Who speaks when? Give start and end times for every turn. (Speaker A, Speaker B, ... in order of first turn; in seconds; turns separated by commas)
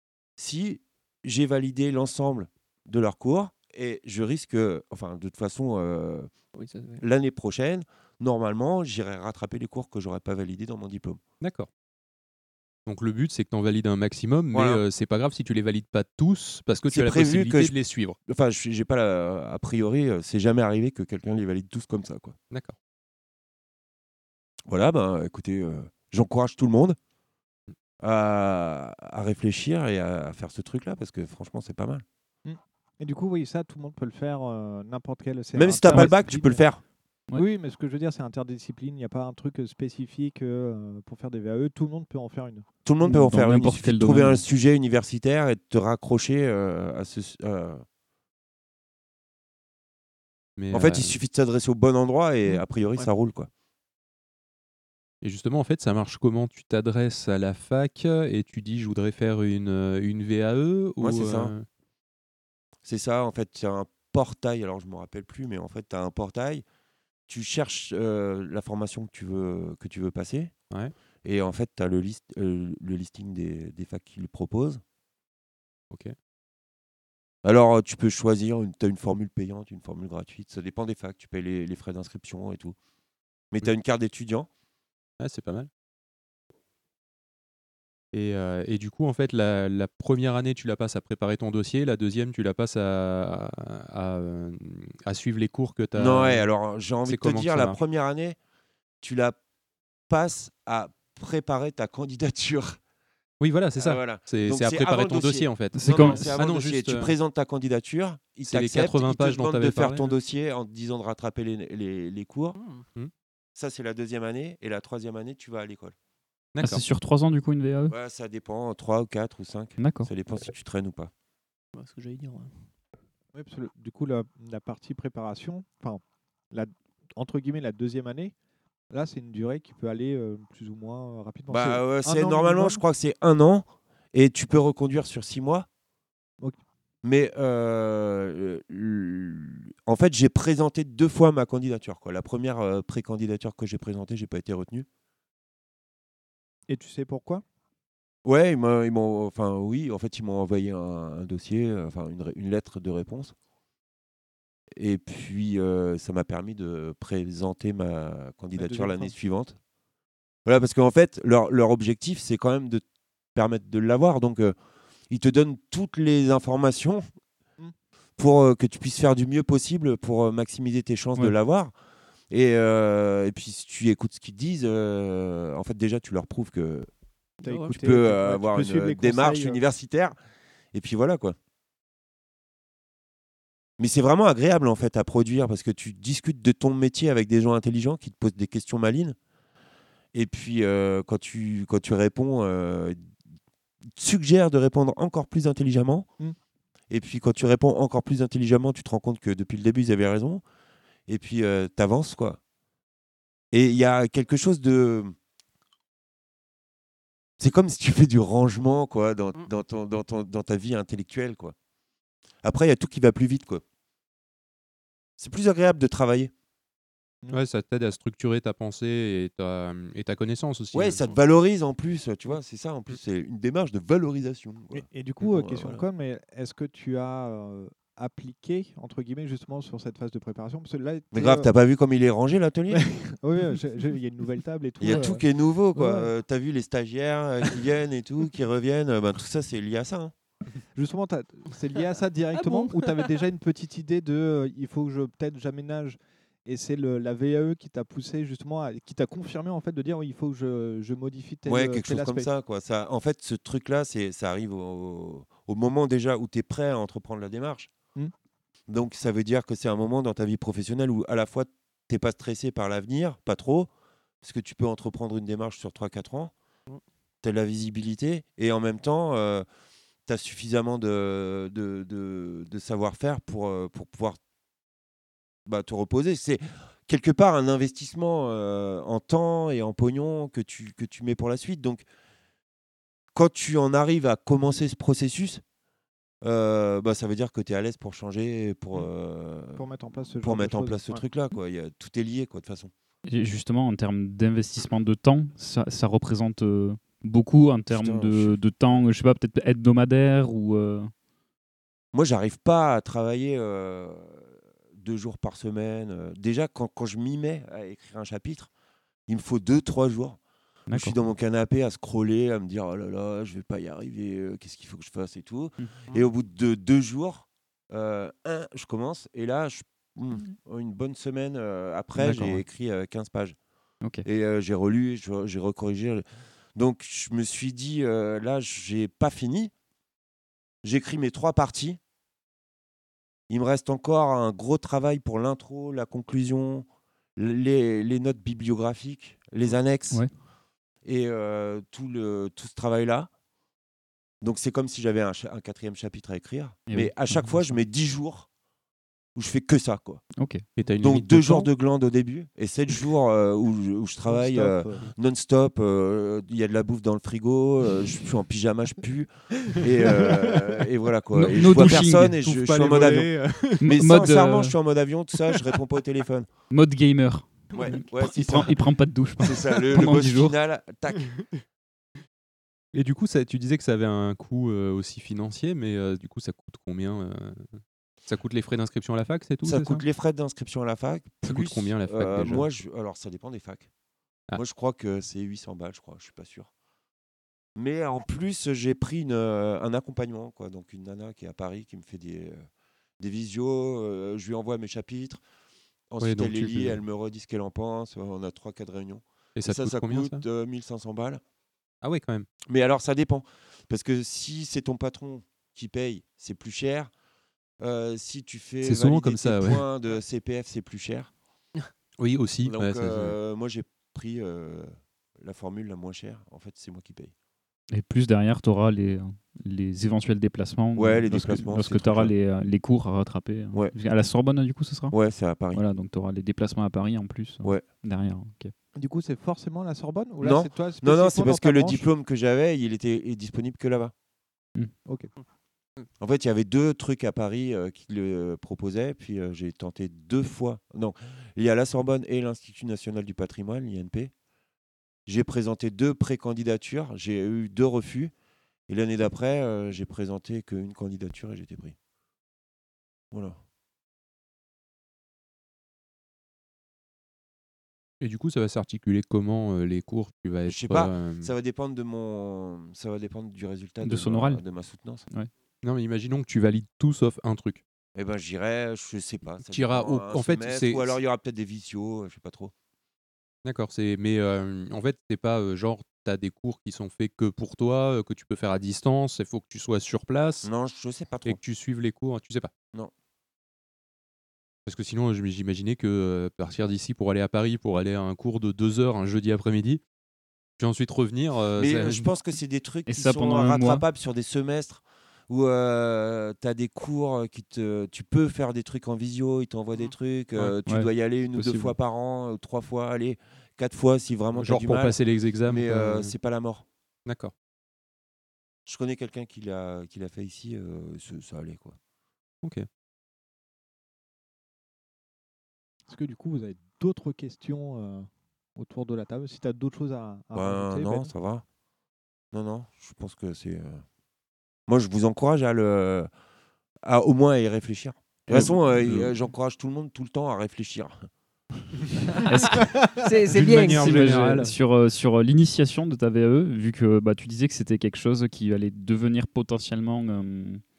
Speaker A: 0.4-6.3, Speaker B: 6.5-7.0, Speaker A: 7.0-11.2, Speaker C: 11.4-11.7, Speaker C: 12.8-18.1, Speaker A: 14.5-14.8, Speaker A: 16.9-17.7, Speaker A: 18.3-22.4, Speaker A: 24.7-27.0, Speaker A: 28.0-32.0, Speaker D: 32.4-36.6, Speaker A: 35.5-36.8, Speaker D: 37.3-42.7, Speaker A: 42.8-47.8, Speaker E: 43.0-44.4, Speaker C: 50.6-51.1, Speaker A: 50.7-53.5, Speaker C: 55.2-61.6, Speaker A: 61.0-61.5, Speaker A: 62.8-66.6, Speaker A: 67.3-70.5, Speaker A: 71.2-74.8, Speaker A: 77.4-82.8, Speaker A: 83.5-84.5, Speaker C: 85.2-85.7, Speaker C: 88.1-96.4, Speaker A: 95.9-98.4, Speaker C: 97.0-97.8, Speaker A: 99.0-99.4, Speaker A: 100.1-102.8, Speaker C: 103.4-107.1, Speaker A: 103.8-112.6, Speaker E: 105.7-106.3, Speaker C: 108.5-110.2, Speaker B: 112.5-112.8, Speaker A: 113.5-115.9, Speaker C: 116.5-116.8, Speaker E: 116.6-117.9, Speaker A: 117.9-121.1, Speaker E: 119.8-120.1, Speaker B: 121.7-122.5, Speaker D: 123.3-128.3, Speaker D: 128.9-132.8, Speaker A: 131.5-135.7, Speaker A: 137.0-144.8, Speaker D: 146.7-147.4, Speaker A: 148.2-153.3, Speaker A: 154.8-159.6, Speaker D: 158.6-159.1, Speaker A: 160.4-162.8, Speaker A: 163.3-164.5, Speaker A: 165.1-167.0, Speaker A: 168.2-171.7, Speaker A: 172.3-176.9, Speaker B: 177.4-177.9, Speaker D: 177.4-179.6, Speaker A: 177.7-180.2, Speaker A: 180.7-181.3, Speaker A: 183.8-189.2, Speaker A: 190.1-193.0, Speaker A: 193.9-196.1, Speaker A: 196.9-200.4, Speaker A: 201.1-202.4, Speaker A: 203.5-205.1, Speaker A: 207.4-211.5, Speaker A: 212.4-213.6, Speaker A: 215.2-216.3, Speaker C: 217.3-221.1, Speaker A: 220.7-225.8, Speaker D: 224.7-231.5, Speaker A: 231.1-232.8, Speaker D: 232.7-236.1, Speaker A: 234.8-240.1, Speaker D: 240.7-252.3, Speaker B: 242.3-243.1, Speaker A: 251.5-257.7, Speaker A: 258.7-263.7, Speaker A: 264.2-266.3, Speaker A: 267.2-269.4, Speaker A: 270.1-274.2, Speaker A: 275.4-281.8, Speaker A: 283.1-285.4, Speaker A: 286.2-289.6, Speaker D: 289.5-291.0, Speaker A: 290.2-292.7, Speaker E: 293.1-300.9, Speaker A: 297.7-298.4, Speaker A: 301.9-308.5, Speaker A: 309.1-310.2, Speaker E: 310.7-311.0, Speaker A: 310.7-323.3, Speaker E: 322.0-322.4, Speaker A: 324.0-326.0, Speaker A: 326.6-329.5, Speaker A: 330.6-331.8, Speaker A: 333.3-340.0, Speaker A: 340.8-343.1, Speaker A: 344.2-348.3, Speaker E: 346.7-347.6, Speaker A: 349.1-350.0, Speaker E: 350.2-350.4, Speaker C: 350.6-351.5, Speaker A: 350.8-366.3, Speaker D: 354.1-354.9, Speaker E: 361.1-362.1, Speaker C: 362.2-363.6, Speaker E: 363.6-364.5, Speaker E: 366.5-370.3, Speaker A: 367.5-368.6, Speaker A: 369.2-371.1, Speaker C: 372.7-377.5, Speaker C: 378.1-379.8, Speaker A: 379.4-383.7, Speaker C: 381.2-382.5, Speaker A: 384.3-386.5, Speaker A: 387.6-392.4, Speaker A: 393.0-395.2, Speaker A: 395.9-401.2, Speaker C: 396.0-396.8, Speaker C: 399.4-400.2, Speaker C: 401.8-402.3, Speaker A: 402.5-406.9, Speaker A: 407.6-411.1, Speaker C: 408.6-409.6, Speaker C: 412.0-413.2, Speaker A: 412.4-417.1, Speaker E: 417.7-424.9, Speaker A: 420.8-422.1, Speaker A: 424.9-425.6, Speaker E: 425.5-428.5, Speaker D: 428.7-431.8, Speaker A: 430.2-433.9, Speaker D: 434.9-435.1, Speaker A: 436.0-444.1, Speaker A: 445.1-448.1, Speaker A: 448.7-451.7, Speaker A: 453.1-453.4, Speaker C: 458.0-461.3, Speaker A: 460.4-465.0, Speaker E: 463.8-464.4, Speaker C: 465.6-467.6, Speaker A: 467.9-472.5, Speaker C: 469.5-471.0, Speaker C: 473.4-480.5, Speaker A: 480.4-481.4, Speaker C: 481.2-482.5, Speaker C: 484.6-489.8, Speaker C: 490.6-492.1, Speaker A: 491.6-506.6, Speaker E: 492.9-493.8, Speaker E: 500.6-501.7, Speaker C: 504.3-506.1, Speaker C: 507.1-507.3, Speaker A: 508.6-511.8, Speaker D: 515.9-521.1, Speaker A: 520.3-521.4, Speaker A: 522.3-523.8, Speaker A: 524.7-526.1, Speaker A: 526.8-531.1, Speaker C: 528.3-529.1, Speaker E: 532.2-532.7, Speaker B: 533.0-533.8, Speaker C: 533.3-534.5, Speaker E: 533.5-540.6